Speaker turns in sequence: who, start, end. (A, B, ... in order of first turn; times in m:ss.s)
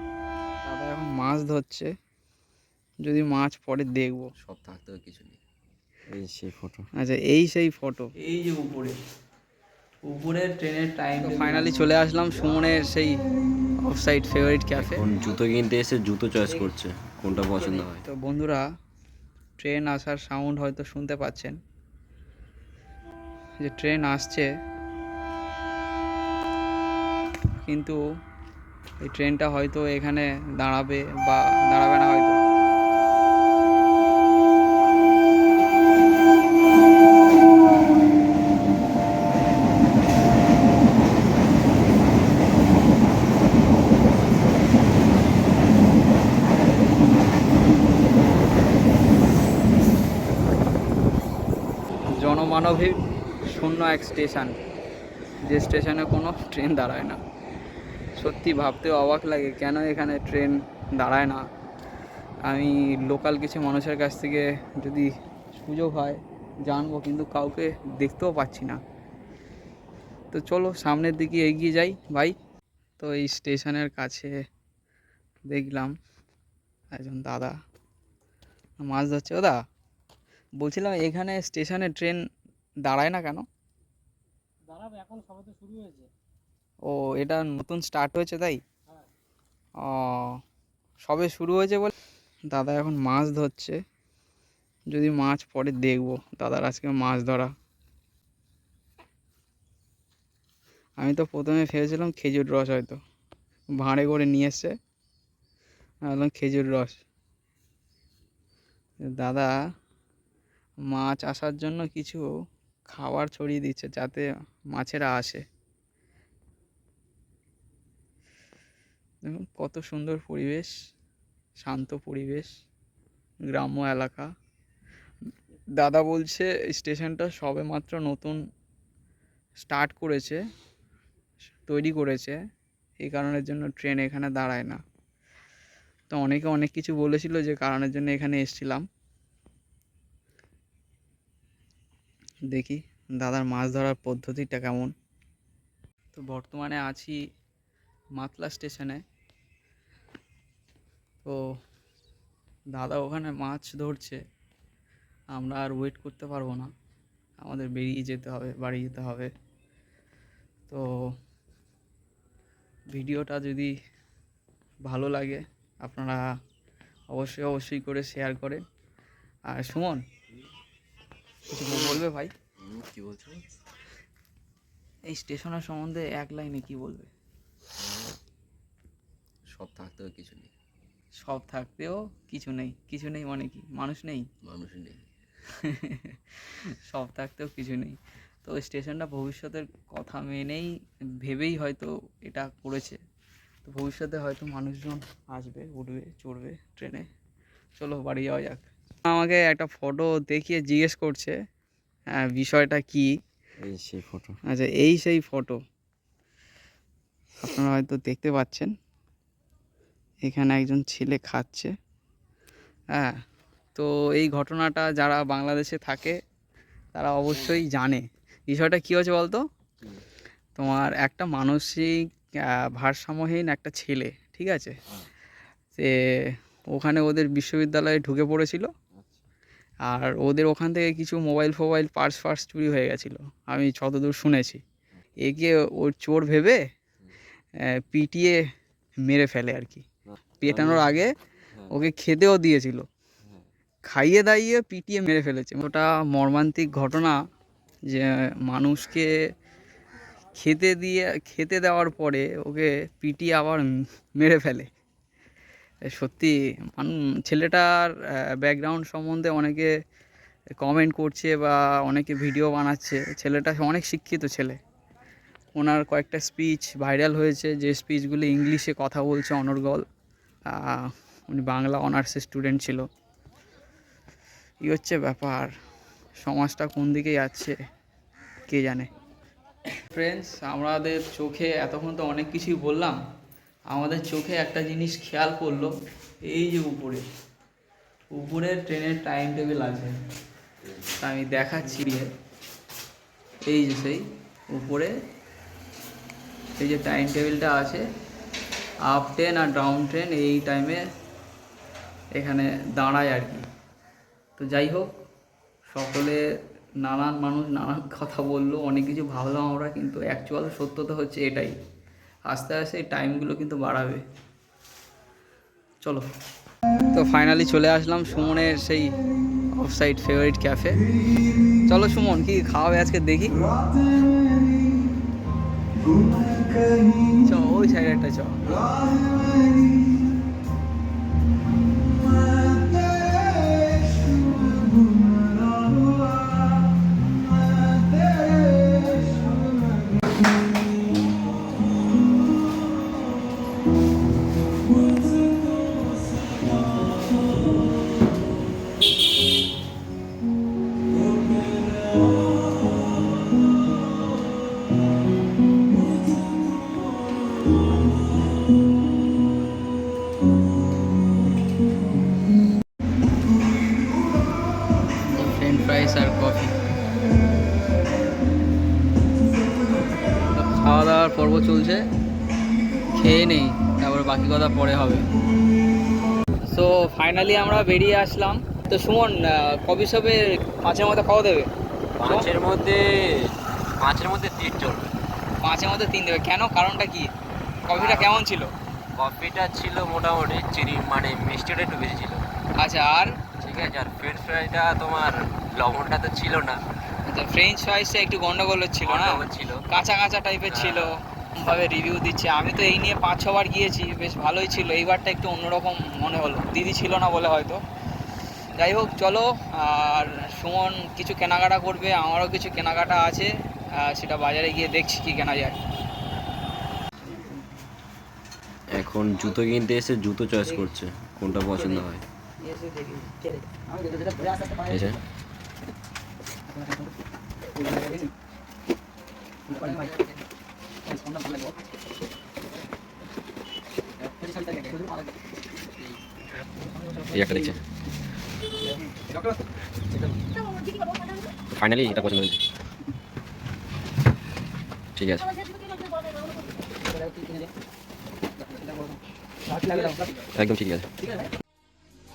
0:00.6-0:01.9 A
0:03.0-0:04.3 A
0:04.4-0:05.4 B
0:06.1-0:06.9 B
0:07.0-0:09.0 A
0:10.1-0:13.2 A
0:13.8-0:15.0 A
0:14.8-0:18.0 B
0:17.6-0:18.6 A
0:19.6-0:21.6 A
0:23.6-0:24.5 A
0:27.6-0:28.0 A
0:29.0-0:32.4 A
0:52.2-0:53.0 A
0:53.5-0:54.6 A
0:55.4-0:57.2 A
0:58.2-1:01.4 A
1:02.5-1:08.8 A
1:10.3-1:12.3 A
1:13.0-1:14.3 A
1:15.5-1:15.9 A
1:17.0-1:17.5 A
1:18.8-1:19.6 A
1:20.6-1:22.2 A
1:22.9-1:23.5 A
1:24.7-1:26.1 C
1:26.8-1:28.6 A
1:29.8-1:30.4 A
1:31.1-1:31.9 A
1:32.5-1:33.8 A
1:34.9-1:37.5 A
1:41.0-1:43.0 A
1:43.8-1:44.8 A
1:46.1-1:47.0 A
1:49.0-1:49.5 A
1:50.9-1:52.2 A
1:52.9-1:55.4 A
1:59.2-2:00.7 A
2:01.6-2:02.5 A
2:03.5-2:04.3 A
2:05.8-2:08.4 A
2:09.6-2:10.4 A
2:11.7-2:12.4 A
2:13.0-2:14.8 A
2:16.1-2:18.8 A
2:22.5-2:24.9 A
2:26.1-2:27.2 A
2:28.2-2:29.0 A
2:32.8-2:34.2 A
2:35.3-2:36.7 A
2:37.4-2:39.3 A
2:40.7-2:41.1 A
2:42.9-2:43.7 A
2:44.9-2:46.2 A
2:47.1-2:48.6 A
2:49.5-2:50.0 A
2:51.5-2:52.3 A
2:52.6-2:53.5 B
2:55.1-2:57.1 A
2:59.5-3:00.5 B
3:01.2-3:04.3 A
3:04.4-3:05.1 B
3:05.5-3:13.0 A
3:13.6-3:17.1 A
3:17.8-3:21.4 A
3:22.1-3:23.1 A
3:23.6-3:24.4 B
3:24.5-3:25.6 A
3:27.4-3:28.7 A
3:30.2-3:31.7 A
3:33.8-3:36.2 A
3:36.9-3:39.4 A
3:40.6-3:44.8 A
3:45.8-3:48.7 A
3:49.8-3:54.6 A
3:55.2-3:56.6 A
3:57.6-3:58.4 A
3:59.0-3:59.9 A
4:00.1-4:01.0 B
4:00.4-4:01.2 A
4:01.7-4:02.9 A
4:03.9-4:07.2 A
4:07.9-4:09.1 A
4:10.4-4:14.7 A
4:15.9-4:19.7 A
4:20.6-4:24.6 A
4:25.6-4:29.8 A
4:30.5-4:32.8 A
4:34.6-4:35.5 A
4:36.2-4:37.6 A
4:38.5-4:38.9 A
4:39.8-4:43.0 A
4:43.7-4:45.7 A
4:46.3-4:47.0 A
4:48.1-4:49.9 A
4:50.9-4:52.1 A
4:53.4-4:54.9 A
4:56.6-4:57.8 A
4:58.9-5:00.8 A
5:02.2-5:03.4 A
5:04.4-5:04.9 A
5:05.7-5:06.2 A
5:06.8-5:11.6 A
5:12.3-5:14.0 A
5:16.9-5:19.0 A
5:19.6-5:20.8 A
5:21.7-5:23.4 A
5:26.2-5:28.5 A
6:05.1-6:06.6 A
6:10.2-6:11.8 A
6:12.9-6:15.1 A
6:16.5-6:21.5 A
6:22.0-6:24.9 B
6:22.0-6:22.3 A
6:25.4-6:27.1 A
6:27.7-6:28.5 A
6:27.7-6:28.2 B
6:29.0-6:32.2 B
6:32.6-6:33.2 A
6:33.4-6:36.6 B
6:37.0-6:47.6 A
6:38.8-6:39.7 B
6:40.5-6:40.9 B
6:48.6-6:55.6 A
6:57.0-6:57.6 A
6:58.7-7:02.0 B
7:02.4-7:03.2 A
7:03.9-7:04.7 C
7:04.6-7:05.0 B
7:09.6-7:09.9 C
7:14.4-7:14.8 C
7:17.1-7:17.6 B
7:21.6-7:22.4 B
7:25.0-7:25.3 B
7:29.6-7:30.0 C
7:30.3-7:30.9 B